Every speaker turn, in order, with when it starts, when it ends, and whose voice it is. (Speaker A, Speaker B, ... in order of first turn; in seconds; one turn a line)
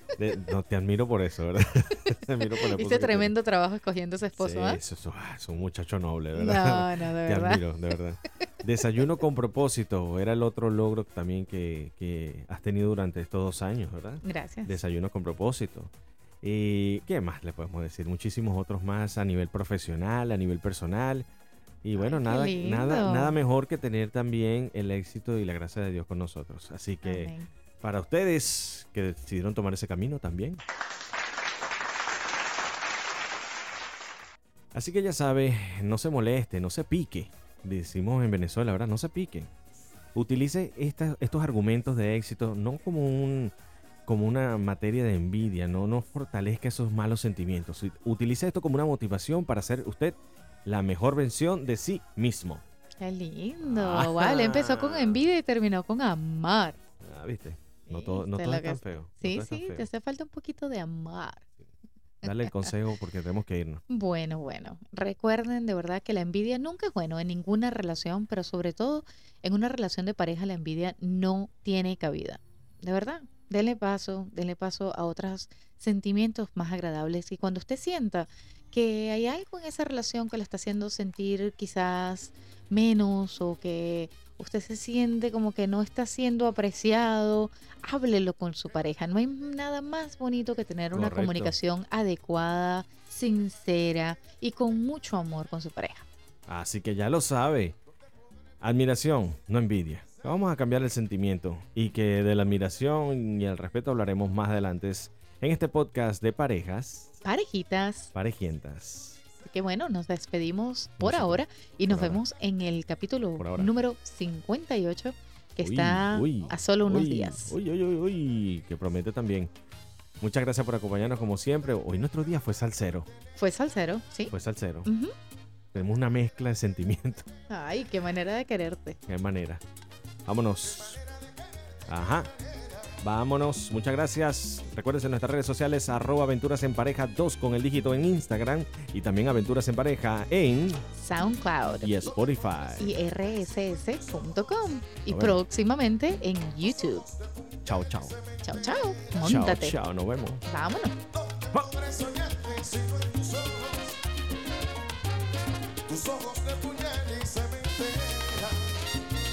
Speaker A: 0.2-3.3
Speaker B: 2.4-4.8
Speaker A: 4.4-15.9
Speaker B: 6.3-7.6
Speaker B: 14.2-14.7
Speaker A: 16.4-21.2
Speaker A: 21.8-30.6
Speaker B: 21.9-23.4
Speaker B: 27.0-27.5
Speaker A: 34.7-39.5
Speaker A: 40.1-43.5
Speaker A: 44.0-52.6
Speaker B: 53.0-56.8
Speaker A: 53.6-55.3
Speaker A: 57.0-59.9
Speaker B: 57.9-61.4
Speaker A: 62.2-63.8
Speaker B: 62.2-62.7
Speaker B: 63.9-96.1
Speaker A: 90.9-91.5
Speaker A: 96.5-97.8
Speaker A: 98.6-107.2
Speaker B: 107.2-108.1
Speaker A: 108.1-109.2
Speaker B: 109.4-117.5
Speaker A: 111.0-112.2
Speaker A: 113.4-113.7
Speaker A: 115.6-119.5
Speaker A: 120.2-123.1
Speaker B: 123.3-124.3
Speaker A: 124.3-124.9
Speaker B: 124.8-125.1
Speaker A: 125.7-127.3
Speaker B: 127.5-129.0
Speaker A: 129.1-129.6
Speaker A: 130.2-131.0
Speaker A: 131.9-132.3
Speaker A: 133.0-140.8
Speaker B: 140.9-142.1
Speaker A: 141.8-143.0
Speaker B: 142.8-147.1
Speaker A: 145.1-145.4
Speaker A: 147.6-148.2
Speaker B: 148.4-149.8
Speaker A: 149.2-150.4
Speaker B: 150.4-151.0
Speaker A: 151.5-151.9
Speaker C: 151.9-153.7
Speaker C: 155.9-158.4